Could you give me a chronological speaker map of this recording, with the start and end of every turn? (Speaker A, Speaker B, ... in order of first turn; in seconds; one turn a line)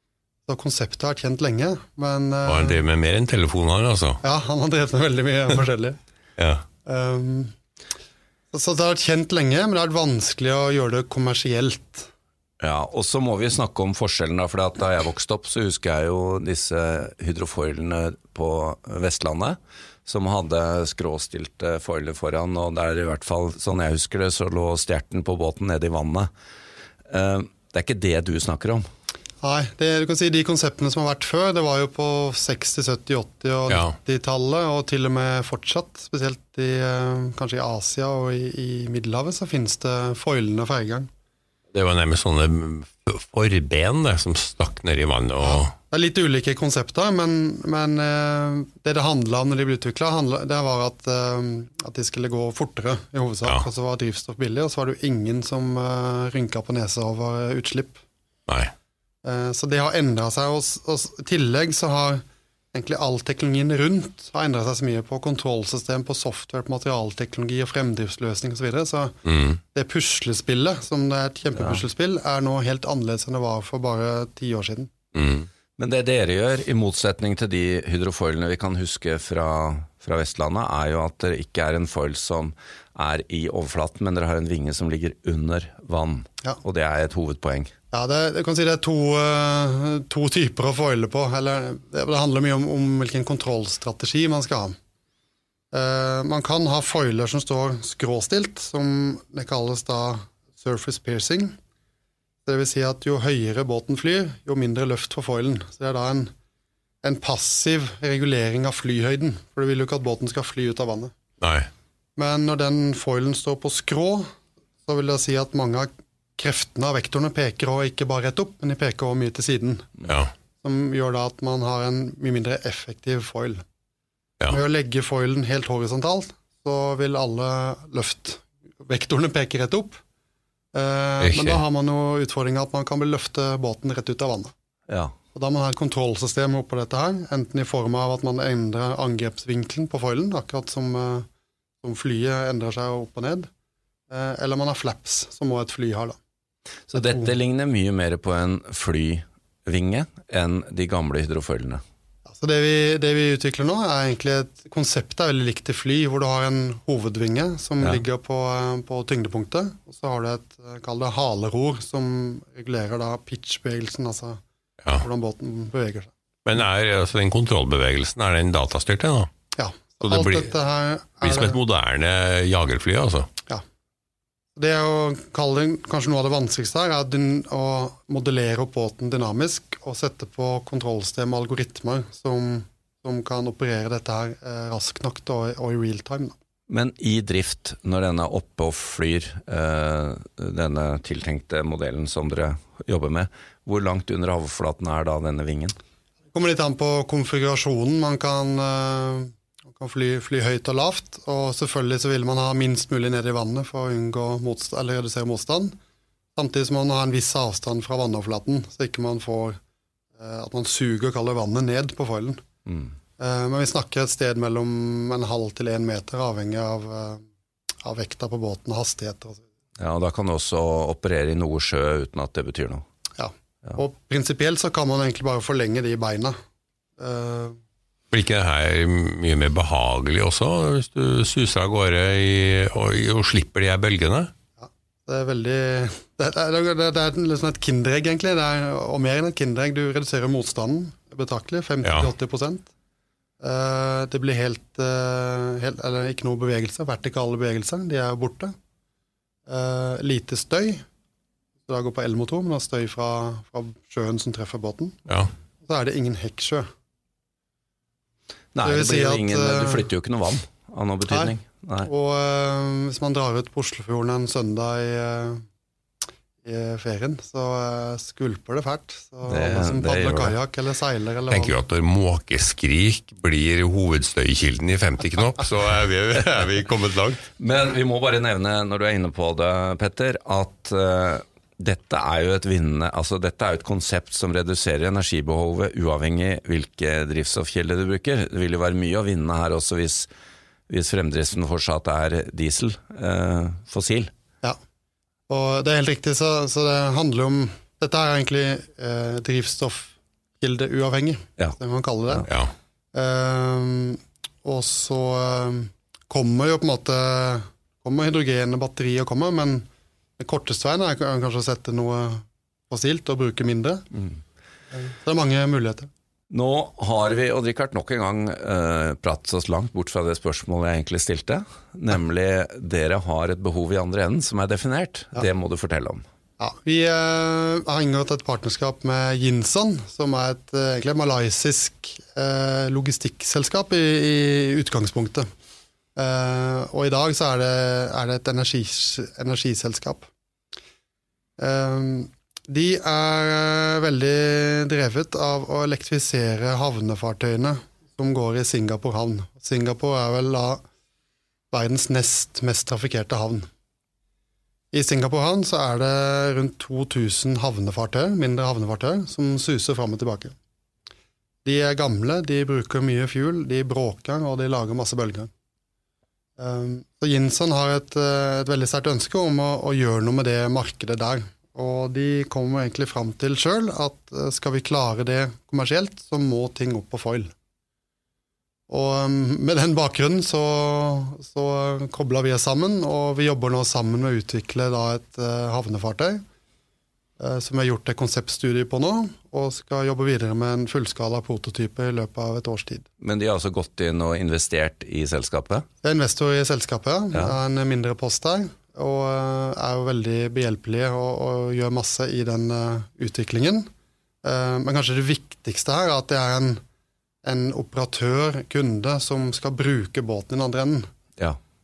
Speaker A: 0.5-2.8
Speaker B: 2.4-4.2
Speaker A: 4.2-6.0
Speaker B: 6.4-6.6
Speaker A: 6.8-7.5
Speaker A: 8.5-12.1
Speaker C: 12.6-26.3
Speaker C: 27.1-28.9
Speaker A: 29.4-41.1
Speaker B: 33.7-34.0
Speaker B: 41.7-45.7
Speaker A: 45.4-58.0
Speaker A: 59.2-69.1
Speaker B: 69.2-69.6
Speaker A: 69.7-74.9
Speaker B: 75.2-75.5
Speaker C: 75.8-87.7
Speaker A: 87.9-94.8
Speaker A: 95.7-101.5
Speaker A: 102.4-106.3
Speaker A: 107.0-111.1
Speaker B: 111.4-111.7
Speaker A: 112.2-114.3
Speaker A: 114.8-119.9
Speaker B: 120.0-120.3
Speaker A: 120.6-123.6
Speaker A: 124.5-130.0
Speaker A: 130.7-134.5
Speaker B: 131.2-131.6
Speaker C: 134.9-135.2
Speaker A: 135.3-141.3
Speaker A: 141.8-143.5
Speaker A: 144.1-146.2
Speaker C: 146.9-151.8
Speaker A: 146.9-147.3
Speaker A: 152.3-164.4
Speaker A: 165.0-166.1
Speaker B: 166.4-169.3
Speaker A: 169.5-171.6
Speaker B: 170.1-170.5
Speaker B: 171.2-173.3
Speaker A: 174.6-186.3
Speaker C: 186.7-195.8
Speaker A: 196.3-205.8
Speaker A: 206.4-209.6
Speaker A: 210.2-212.4
Speaker C: 212.7-212.9
Speaker A: 213.2-217.2
Speaker A: 217.8-219.4
Speaker C: 219.8-222.8
Speaker A: 223.2-226.4
Speaker A: 227.0-227.6
Speaker B: 228.1-234.3
Speaker A: 234.6-242.7
Speaker B: 241.8-242.1
Speaker A: 243.4-248.5
Speaker A: 249.5-250.8
Speaker A: 251.7-255.0
Speaker A: 255.6-256.7
Speaker C: 258.5-261.9
Speaker A: 258.6-259.9
Speaker A: 261.1-265.4
Speaker A: 266.4-271.6
Speaker C: 269.3-270.3
Speaker B: 271.3-277.2
Speaker C: 277.4-290.1
Speaker C: 290.7-294.1
Speaker A: 295.3-302.3
Speaker B: 302.3-302.5
Speaker A: 302.9-309.7
Speaker A: 310.2-313.9
Speaker A: 314.7-315.9
Speaker C: 316.3-326.0
Speaker A: 326.4-335.3
Speaker A: 335.9-340.1
Speaker A: 341.4-350.6
Speaker A: 351.5-353.5
Speaker A: 354.7-360.4
Speaker A: 361.4-365.3
Speaker A: 366.4-377.3
Speaker A: 378.7-386.2
Speaker A: 387.2-392.8
Speaker C: 393.0-395.7
Speaker A: 395.8-403.7
Speaker A: 404.2-406.6
Speaker A: 407.2-410.9